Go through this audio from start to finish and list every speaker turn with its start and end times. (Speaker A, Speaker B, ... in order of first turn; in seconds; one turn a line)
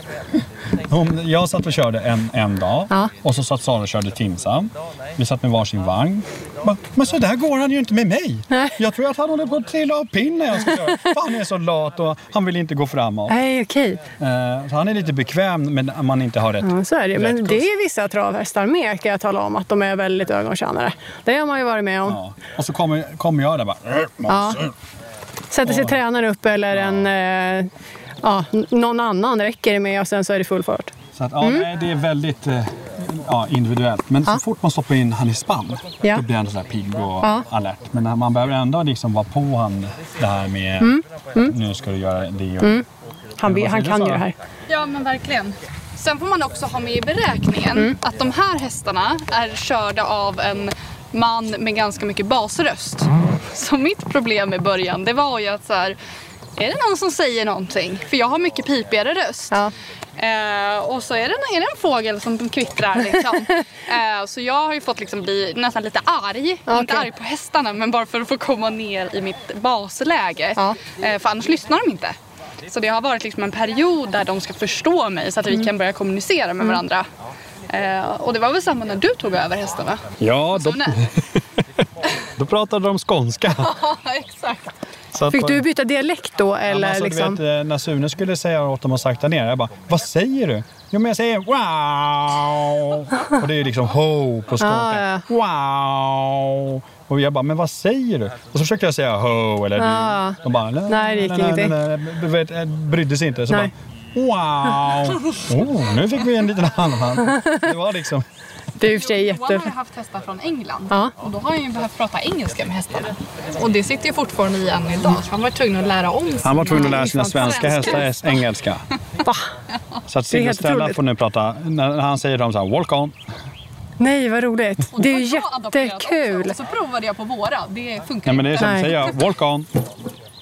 Speaker A: 0.4-13.4
Speaker B: 8.5-8.8
Speaker B: 13.3-14.0
Speaker A: 14.2-17.7
Speaker B: 16.6-22.2
Speaker A: 22.1-24.7
Speaker B: 24.3-24.7
Speaker B: 25.5-27.7
Speaker A: 25.6-26.0
Speaker A: 26.7-27.1
Speaker B: 28.2-31.7
Speaker A: 31.1-42.8
Speaker B: 40.8-41.5
Speaker B: 43.4-44.3
Speaker A: 43.4-44.3
Speaker C: 44.7-56.0
Speaker C: 56.6-59.6
Speaker C: 60.2-72.2
Speaker B: 66.7-67.1
Speaker C: 72.7-77.1
Speaker C: 77.7-80.0
Speaker A: 80.2-81.2
Speaker C: 80.5-81.0
Speaker A: 82.4-83.8
Speaker C: 83.7-84.6
Speaker A: 85.1-85.7
Speaker B: 85.3-87.4
Speaker A: 86.7-108.2
Speaker B: 94.6-95.2
Speaker B: 99.8-100.4
Speaker B: 100.9-101.8
Speaker B: 108.8-109.7
Speaker C: 108.9-118.2
Speaker A: 116.4-118.8
Speaker B: 116.7-117.9
Speaker A: 120.1-123.2
Speaker B: 120.3-121.0
Speaker B: 124.0-126.6
Speaker C: 124.9-129.1
Speaker A: 128.3-129.7
Speaker B: 128.6-128.9